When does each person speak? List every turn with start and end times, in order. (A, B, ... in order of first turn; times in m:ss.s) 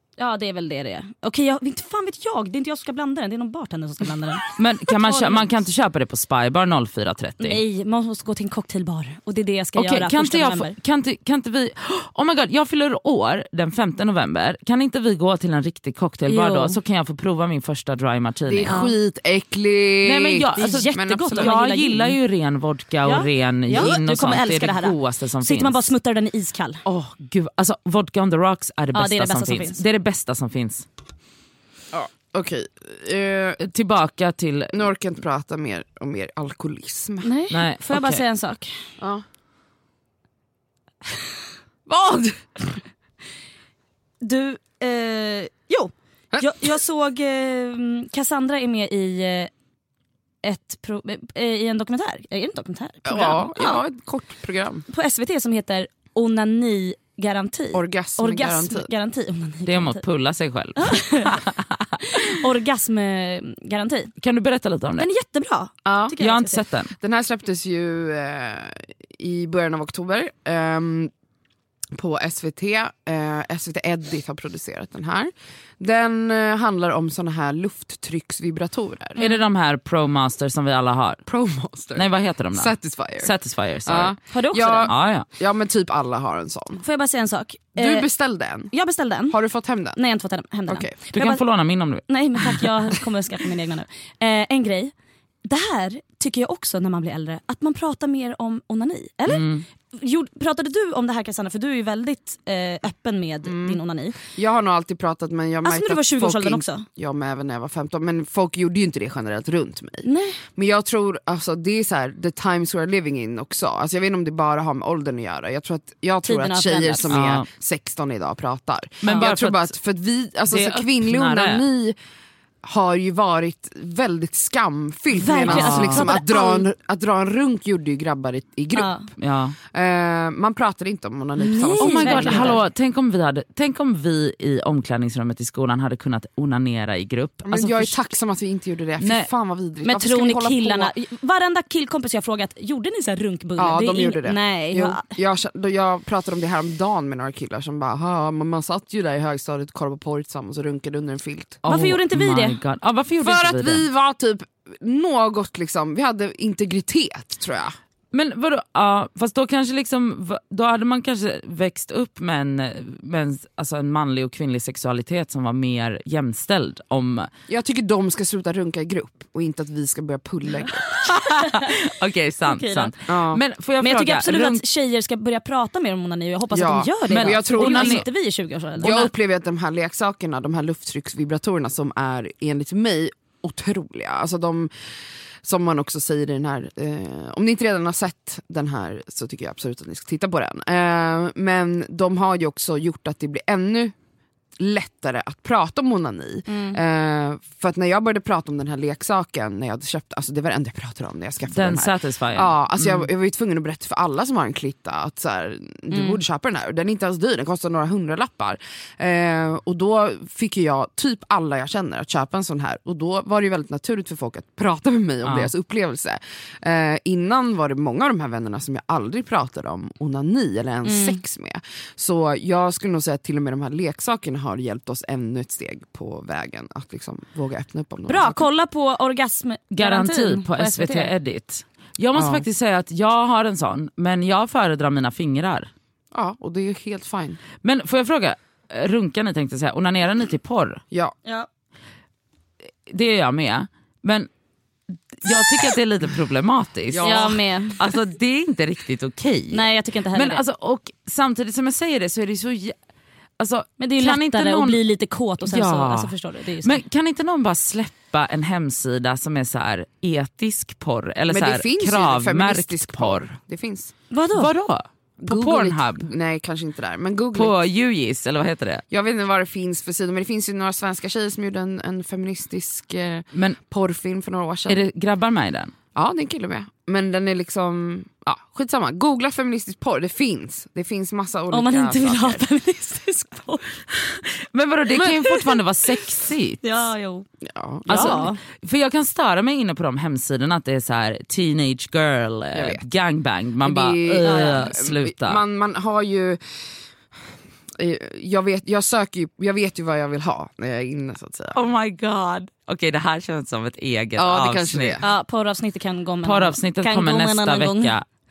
0:00.2-0:05.5 A
0:04.6-0:07.6 B
0:07.4-0:10.8 A
0:09.8-0:18.8 B
0:16.3-0:16.8 A
0:18.5-0:21.6 C
0:18.7-0:18.9 A
0:20.0-0:25.9 B
0:20.6-0:22.2 A
0:23.0-0:26.8 A
0:26.8-0:30.9 B
0:28.9-0:29.8 A
0:31.9-0:33.6 C
0:33.6-0:34.9 B
0:34.7-0:37.3 C
0:37.2-0:38.8 A
0:37.5-0:38.2 B
0:39.0-0:39.2 C
0:41.9-0:42.4 C
0:44.2-0:49.5 A
0:46.3-0:46.8 C
0:50.4-0:53.8 A
0:53.0-0:54.8 C
0:54.9-1:00.0 A
0:57.7-0:58.9 C
0:59.7-1:01.8 B
1:00.8-1:01.4 A
1:02.0-1:04.1 A
1:04.2-1:05.1 B
1:05.0-1:06.6 A
1:05.8-1:06.2 C
1:06.2-1:06.9 B
1:07.0-1:11.1 C
1:11.9-1:19.2 C
1:19.2-1:21.2 B
1:21.3-1:23.3 C
1:21.9-1:24.2 B
1:23.8-1:26.8 C
1:24.3-1:24.9 A
1:24.8-1:25.3 B
1:26.8-1:28.1 A
1:27.8-1:28.7 C
1:28.7-1:29.4 A
1:29.3-1:30.0 C
1:30.0-1:31.4 A
1:30.7-1:31.0 C
1:31.1-1:32.7 B
1:32.1-1:34.9 A
1:35.4-1:44.2 A
1:39.3-1:39.6 B
1:43.4-2:02.0 C
1:45.6-1:46.9 A
1:50.0-1:50.4 A
1:56.2-1:57.2 A
1:57.1-1:57.5 B
1:59.0-1:59.7 B
2:00.5-2:01.7 B
2:02.6-2:08.9 C
2:05.1-2:06.7 A
2:05.5-2:06.1 B
2:08.8-2:09.1 A
2:09.2-2:09.6 B
2:09.7-2:12.6 C
2:11.4-2:12.6 A
2:11.8-2:18.0 B
2:17.5-2:20.9 C
2:19.0-2:19.3 B
2:19.8-2:25.1 A
2:23.6-2:31.6 C
2:31.6-2:33.9 B
2:31.7-2:32.6 A
2:33.2-2:37.7 C
2:38.1-2:47.3 B
2:47.5-2:51.1 C
2:51.0-2:54.6 B
2:51.4-2:51.7 A
2:52.5-2:52.9 A
2:53.1-2:53.4 C
2:53.8-2:58.9 A
2:56.5-2:58.0 C
2:57.1-2:58.1 B
2:58.8-2:59.1 B
2:58.8-3:04.7 C
3:05.4-3:14.0 C
3:14.6-3:48.5 C
3:16.5-3:16.8 A
3:21.5-3:23.0 B
3:25.9-3:26.2 A
3:35.2-3:35.5 B
3:40.8-3:41.2 A
3:48.1-3:51.1 A
3:49.7-3:55.7 B
3:52.1-3:52.5 C
3:56.1-3:57.4 C
3:57.6-4:00.8 B
4:02.9-4:04.3 B
4:05.2-4:12.8 B
4:06.9-4:07.4 C
4:07.0-4:07.8 A
4:09.5-4:10.4 A
4:13.4-4:14.8 B
4:13.8-4:16.8 A
4:15.4-4:23.2 B
4:21.3-4:23.9 C
4:24.1-4:24.5 A
4:24.3-4:26.1 B
4:25.2-4:27.6 C
4:27.3-4:28.8 B
4:28.9-4:34.8 C
4:33.3-4:33.6 B
4:34.7-4:35.7 B
4:36.0-4:42.4 C
4:41.5-4:43.7 A
4:44.0-4:46.9 B
4:45.0-4:45.6 A
4:46.6-4:47.3 A
4:47.4-4:48.3 C
4:47.9-4:48.4 A
4:47.9-4:55.4 B
4:52.5-4:52.8 C
4:53.6-4:56.4 C
4:54.2-4:54.6 A
4:57.8-5:01.6 C
5:01.5-5:05.0 B
5:04.2-5:05.1 C
5:05.0-5:08.0 A
5:06.2-5:08.0 B